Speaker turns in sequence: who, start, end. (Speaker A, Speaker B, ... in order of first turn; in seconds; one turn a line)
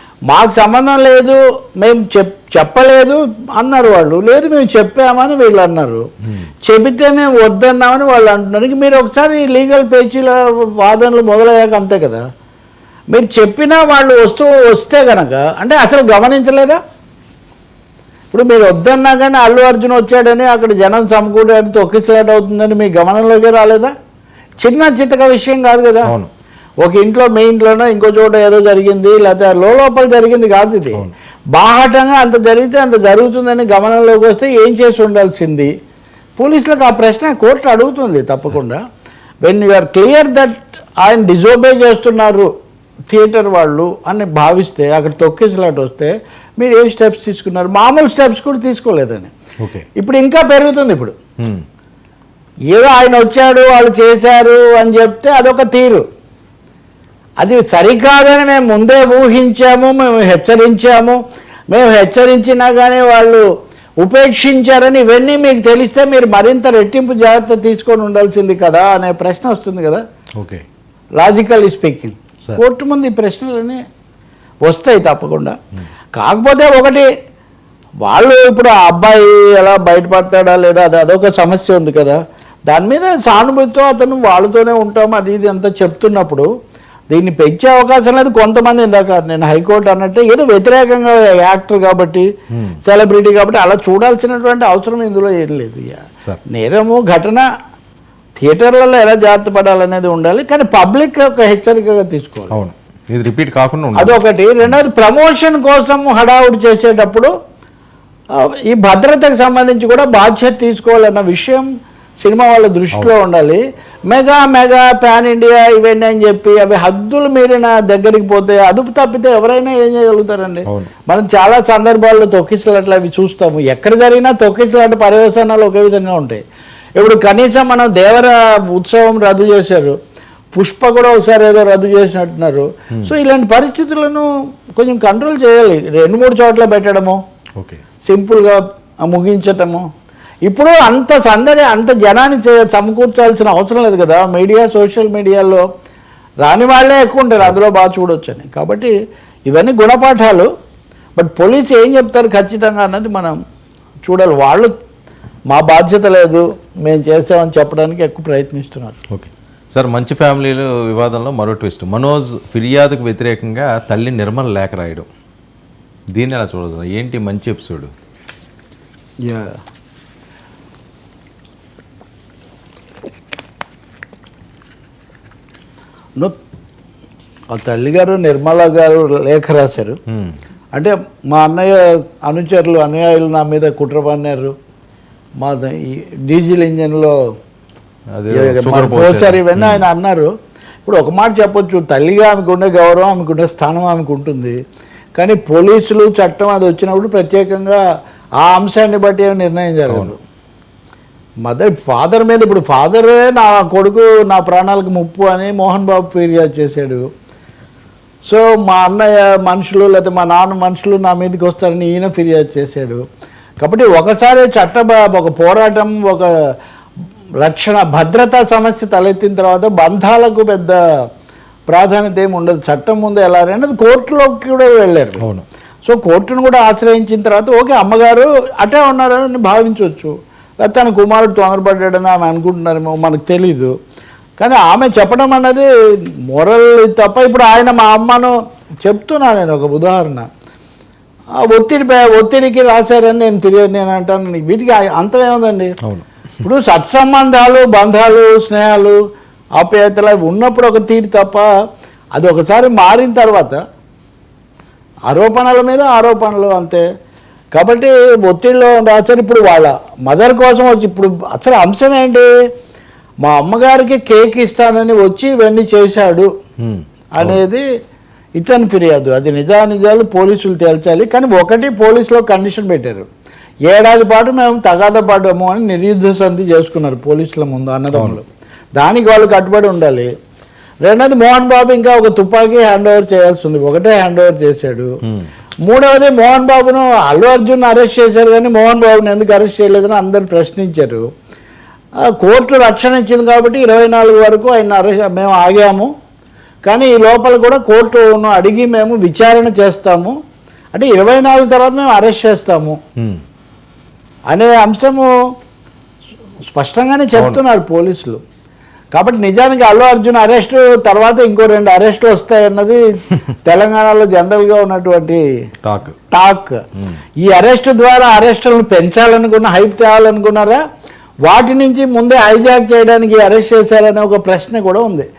Speaker A: 0.3-6.0
Speaker A: 6.7-12.2
Speaker A: 13.1-16.8
Speaker A: 18.3-23.9
Speaker A: 24.6-26.1
Speaker B: 26.1-26.3
Speaker A: 26.8-35.7
Speaker A: 36.4-38.8
Speaker A: 39.4-42.5
Speaker A: 43.1-49.3
Speaker A: 50.0-51.1
Speaker A: 52.7-56.0
Speaker A: 57.4-61.2
Speaker A: 61.7-63.4
Speaker A: 64.0-70.0
Speaker B: 70.4-70.6
Speaker A: 71.2-73.8
Speaker A: 74.6-75.5
Speaker A: 76.2-77.1
Speaker A: 78.0-86.5
Speaker A: 87.1-92.3
Speaker B: 92.5-92.8
Speaker A: 92.9-97.5
Speaker A: 98.4-102.5
Speaker B: 102.5-104.8
Speaker A: 104.0-107.3
Speaker A: 108.4-111.7
Speaker A: 112.2-126.4
Speaker A: 127.0-130.0
Speaker A: 130.5-137.2
Speaker A: 138.1-139.8
Speaker A: 140.5-145.6
Speaker A: 146.4-148.9
Speaker A: 149.5-150.5
Speaker A: 151.2-153.4
Speaker A: 154.1-154.7
Speaker A: 155.5-159.0
Speaker B: 159.1-165.1
Speaker B: 166.2-167.9
Speaker A: 169.2-169.5
Speaker A: 177.5-180.0
Speaker A: 180.8-184.5
Speaker A: 185.4-187.1
Speaker B: 188.2-189.8
Speaker A: 188.3-190.3
Speaker A: 190.8-194.6
Speaker A: 195.2-197.8
Speaker A: 198.4-200.2
Speaker A: 201.4-207.1
Speaker A: 208.3-213.0
Speaker A: 213.6-216.3
Speaker A: 217.4-220.8
Speaker A: 221.7-225.2
Speaker B: 225.2-225.4
Speaker A: 225.8-230.1
Speaker A: 230.6-233.7
Speaker A: 234.4-235.7
Speaker A: 236.3-238.3
Speaker A: 238.8-240.3
Speaker A: 241.4-245.8
Speaker A: 246.4-249.0
Speaker A: 249.6-251.5
Speaker A: 252.2-253.6
Speaker A: 255.1-256.8
Speaker A: 257.6-262.3
Speaker A: 263.2-266.3
Speaker B: 266.6-267.4
Speaker A: 267.1-267.6
Speaker A: 268.4-273.1
Speaker A: 273.7-278.2
Speaker B: 277.9-278.2
Speaker A: 278.8-280.1
Speaker A: 280.8-284.9
Speaker A: 285.7-291.1
Speaker A: 292.1-295.9
Speaker A: 296.7-300.1
Speaker A: 300.7-302.8
Speaker A: 304.3-305.1
Speaker A: 306.5-308.2
Speaker B: 307.2-307.4
Speaker A: 308.9-312.8
Speaker A: 313.4-315.2
Speaker B: 315.6-316.0
Speaker A: 316.1-316.6
Speaker A: 317.2-320.6
Speaker A: 321.2-325.1